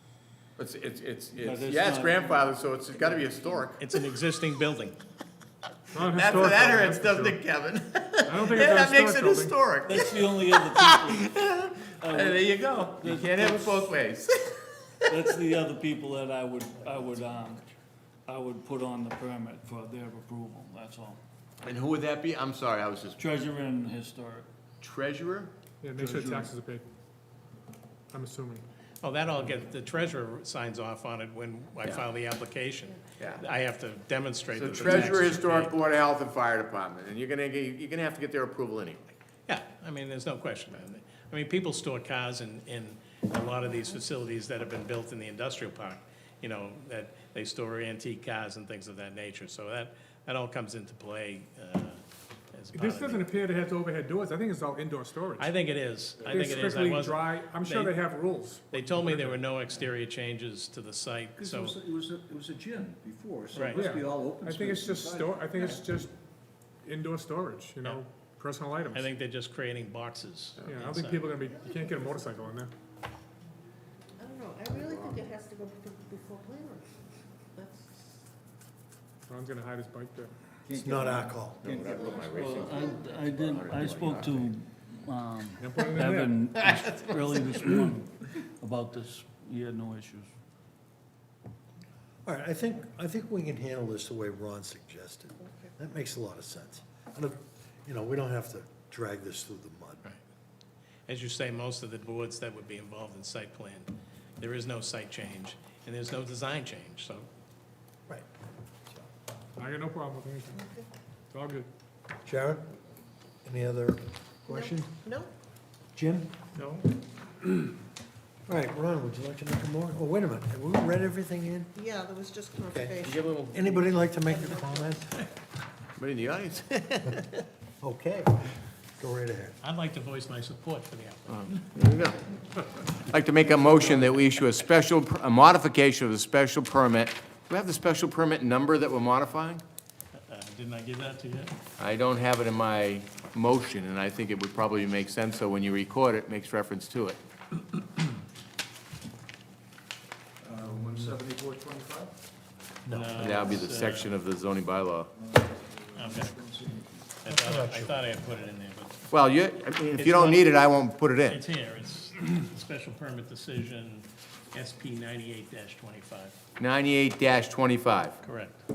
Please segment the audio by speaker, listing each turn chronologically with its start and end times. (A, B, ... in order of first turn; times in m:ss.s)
0:00.6-0:03.8 A
0:01.4-0:02.4 B
0:03.8-0:05.0 C
0:05.9-0:07.4 D
0:06.0-0:15.2 A
0:08.3-0:09.6 D
0:09.8-0:14.0 B
0:15.1-0:17.6 B
0:18.3-0:21.2 B
0:21.6-0:23.2 A
0:23.2-0:24.5 B
0:24.8-0:25.5 A
0:25.8-0:26.9 D
0:26.0-0:26.4 A
0:28.1-0:28.6 D
0:29.0-0:35.7 C
0:33.2-0:33.4 A
0:34.5-0:39.2 A
0:39.5-0:52.0 C
0:52.5-0:53.2 C
0:52.8-0:55.5 D
0:55.4-0:58.1 C
0:56.2-0:59.4 D
0:56.4-0:56.7 E
0:58.7-1:01.8 C
1:01.4-1:05.8 E
1:03.5-1:03.9 C
1:03.7-1:06.1 D
1:06.8-1:09.1 D
1:08.9-1:11.3 C
1:10.6-1:12.7 D
1:14.2-1:17.0 F
1:17.6-1:18.2 F
1:19.3-1:20.3 D
1:20.7-1:22.3 E
1:20.7-1:21.7 G
1:21.6-1:24.5 A
1:22.0-1:23.0 F
1:22.3-1:30.3 B
1:25.6-1:26.4 D
1:32.3-1:40.0 G
1:41.1-1:47.3 C
1:49.6-1:50.6 D
1:50.5-1:50.9 F
1:51.3-1:51.7 D
1:52.2-1:52.7 G
1:53.4-1:54.9 G
1:54.5-1:55.3 F
1:55.9-1:56.3 G
1:58.5-2:01.7 G
2:01.8-2:03.2 F
2:02.7-2:05.2 G
2:03.0-2:04.0 A
2:06.0-2:07.4 A
2:07.8-2:08.4 G
2:09.0-2:09.6 G
2:09.6-2:11.6 C
2:11.3-2:12.2 A
2:12.9-2:19.6 A
2:20.2-2:21.6 C
2:21.8-2:27.2 A
2:30.4-2:32.1 E
2:32.9-2:33.4 G
2:32.9-2:34.1 C
2:33.2-2:35.1 A
2:35.7-2:37.0 E
2:36.0-2:36.4 C
2:37.2-2:39.1 C
2:37.3-2:38.0 G
2:39.1-2:41.4 A
2:40.0-2:40.5 C
2:41.3-2:46.4 C
2:46.6-2:48.2 A
2:48.2-2:48.6 C